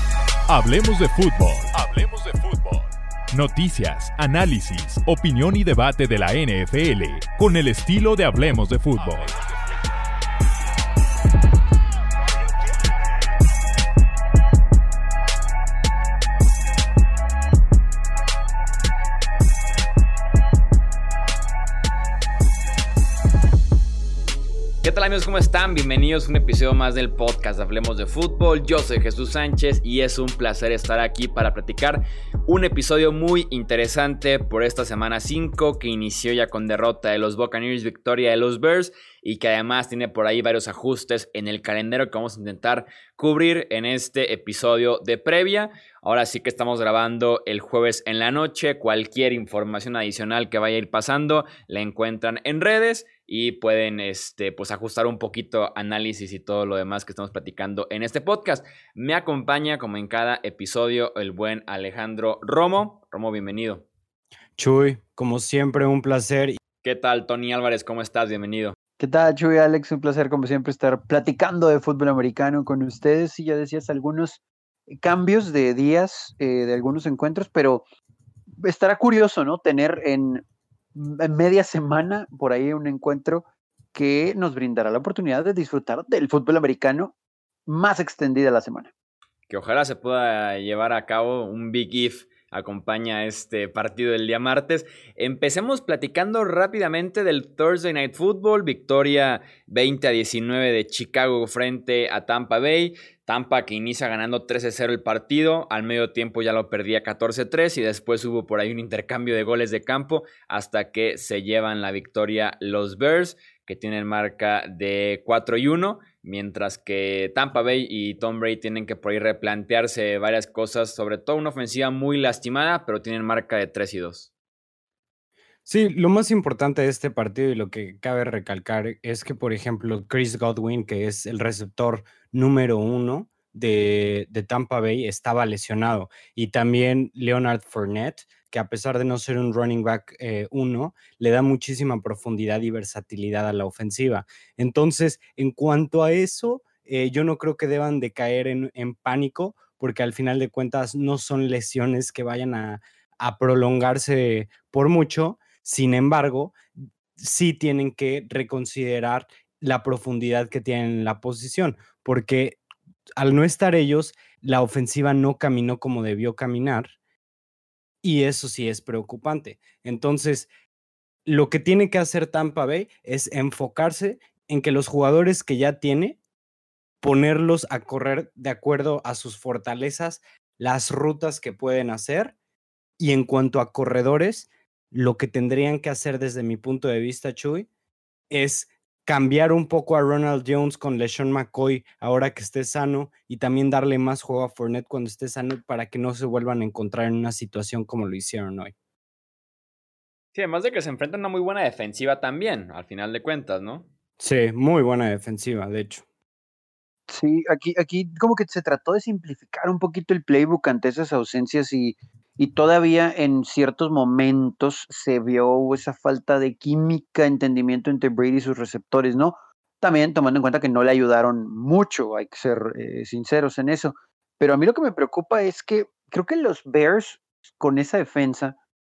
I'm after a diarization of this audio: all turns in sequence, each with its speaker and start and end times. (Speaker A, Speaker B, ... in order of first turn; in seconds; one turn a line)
Speaker A: 0.5-9.3
Speaker B: 24.8-63.8
Speaker C: 64.6-66.6
Speaker B: 66.8-68.8
Speaker D: 69.0-77.8
Speaker D: 78.6-80.4
Speaker D: 81.0-87.1
Speaker D: 87.7-88.9
Speaker B: 89.5-124.3
Speaker C: 125.7-156.6
Speaker C: 157.2-162.6
Speaker C: 163.2-166.9
Speaker C: 168.0-170.5
Speaker C: 171.2-176.2
Speaker C: 177.0-182.3
Speaker C: 183.0-187.7
Speaker C: 188.3-198.7
Speaker B: 200.3-203.9
Speaker C: 204.2-206.0
Speaker D: 207.1-228.6